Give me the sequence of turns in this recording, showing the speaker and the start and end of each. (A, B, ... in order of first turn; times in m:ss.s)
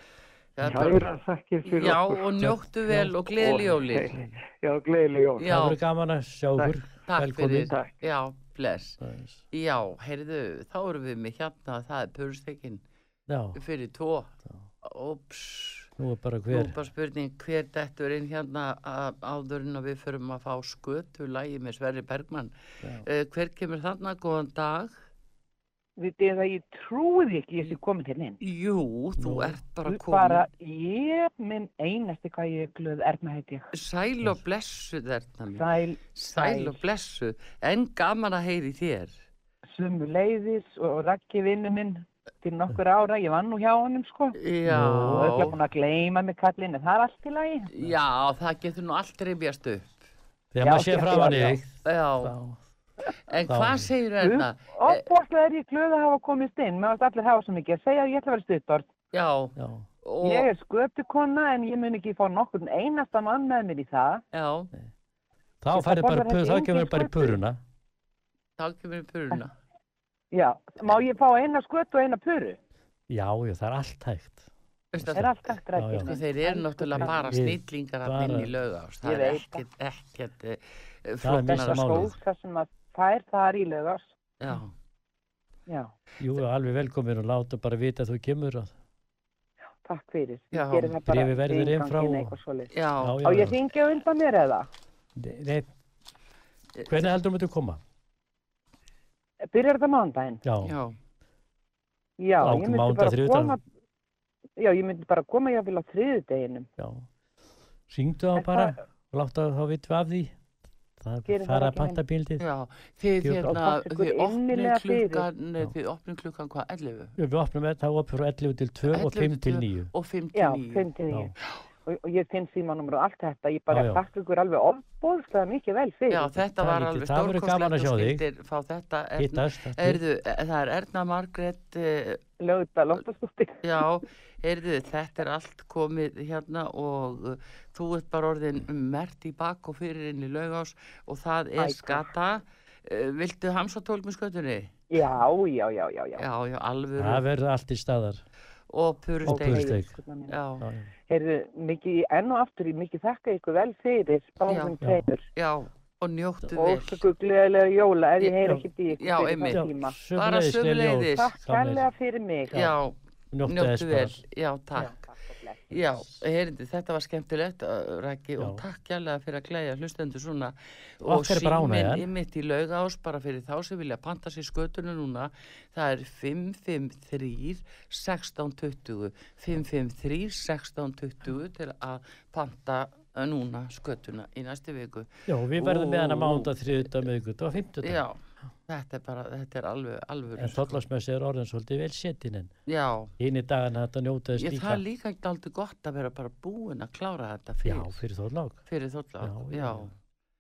0:00.6-0:01.1 A
0:00.6-0:01.0 B
0:00.6-0:02.5 C
0:01.6-0:04.2 A
0:02.4-0:03.2 B
0:03.3-0:05.5 C
0:04.1-0:04.4 B
0:05.4-0:05.8 A
0:05.4-0:07.7 B
0:07.1-0:09.0 A
0:09.0-0:09.4 B
0:09.5-0:12.8 A
0:13.3-0:13.6 B
0:13.6-0:15.9 A
0:16.0-0:16.8 B
0:16.5-0:22.5 A
0:23.0-0:25.0 A
0:26.0-0:28.4 D
0:28.4-0:30.5 A
0:29.2-0:29.6 B
0:29.9-0:33.7 D
0:33.7-0:39.2 A
0:35.5-0:36.8 D
0:39.7-0:47.7 D
0:44.3-0:45.6 A
0:44.6-0:45.5 B
0:47.7-0:50.0 A
0:50.5-0:52.6 B
0:50.6-0:51.6 D
0:51.8-0:52.3 A
0:53.3-0:55.0 A
0:53.5-0:53.9 B
0:54.2-0:58.9 D
0:59.1-1:00.5 A
0:59.6-0:59.8 B
1:00.2-1:04.2 D
1:04.3-1:04.7 A
1:05.6-1:07.6 B
1:05.7-1:07.4 D
1:08.6-1:09.6 A
1:10.3-1:12.6 D
1:13.1-1:15.2 B
1:14.9-1:22.1 A
1:15.1-1:17.5 D
1:15.7-1:16.1 B
1:17.0-1:18.5 B
1:19.0-1:19.6 D
1:21.2-1:22.1 B
1:21.4-1:24.1 D
1:24.4-1:24.7 A
1:26.2-1:28.7 B
1:29.8-1:34.7 D
1:30.5-1:31.0 A
1:31.0-1:32.4 B
1:32.7-1:33.4 A
1:33.0-1:33.6 B
1:35.2-1:35.7 B
1:36.8-1:37.0 A
1:36.9-1:37.8 B
1:39.4-1:40.4 D
1:40.4-1:40.7 B
1:40.6-1:41.0 A
1:42.2-1:43.6 D
1:42.4-1:43.6 B
1:44.6-1:46.7 D
1:46.8-1:47.0 B
1:47.9-1:50.3 B
1:48.4-1:48.8 D
1:51.0-1:52.4 B
1:51.3-1:52.0 D
1:52.4-1:57.1 A
1:53.2-1:53.6 B
1:53.5-1:55.3 D
1:57.2-1:59.9 B
1:58.9-2:00.9 A
2:00.3-2:01.3 D
2:01.8-2:06.4 D
2:03.7-2:04.0 B
2:06.1-2:12.2 A
2:06.6-2:08.2 B
2:09.2-2:10.0 B
2:12.4-2:13.6 D
2:13.6-2:24.7 A
2:21.6-2:22.1 D
2:24.9-2:26.2 D
2:26.2-2:27.2 A
2:27.0-2:28.2 B
2:28.7-2:29.8 A
2:29.3-2:29.9 B
2:29.3-2:30.4 D
2:30.3-2:30.6 A
2:30.6-2:30.9 B
2:31.1-2:35.2 D
2:34.4-2:34.8 A
2:34.8-2:35.1 B
2:35.3-2:37.0 A
2:36.5-2:40.0 D
2:38.2-2:41.3 A
2:39.5-2:41.9 B
2:41.1-2:42.6 D
2:42.5-2:42.8 B
2:42.5-2:45.0 A
2:43.3-2:44.2 B
2:44.7-2:45.9 D
2:45.7-3:06.6 A
2:48.4-2:48.6 B
2:51.0-2:52.1 B
3:05.3-3:08.0 B
3:07.8-3:10.8 A
3:10.3-3:12.5 B
3:12.7-3:13.1 A
3:13.2-3:14.8 B
3:14.3-3:18.0 A
3:17.6-3:18.6 B
3:18.7-3:19.9 A
3:19.2-3:19.9 B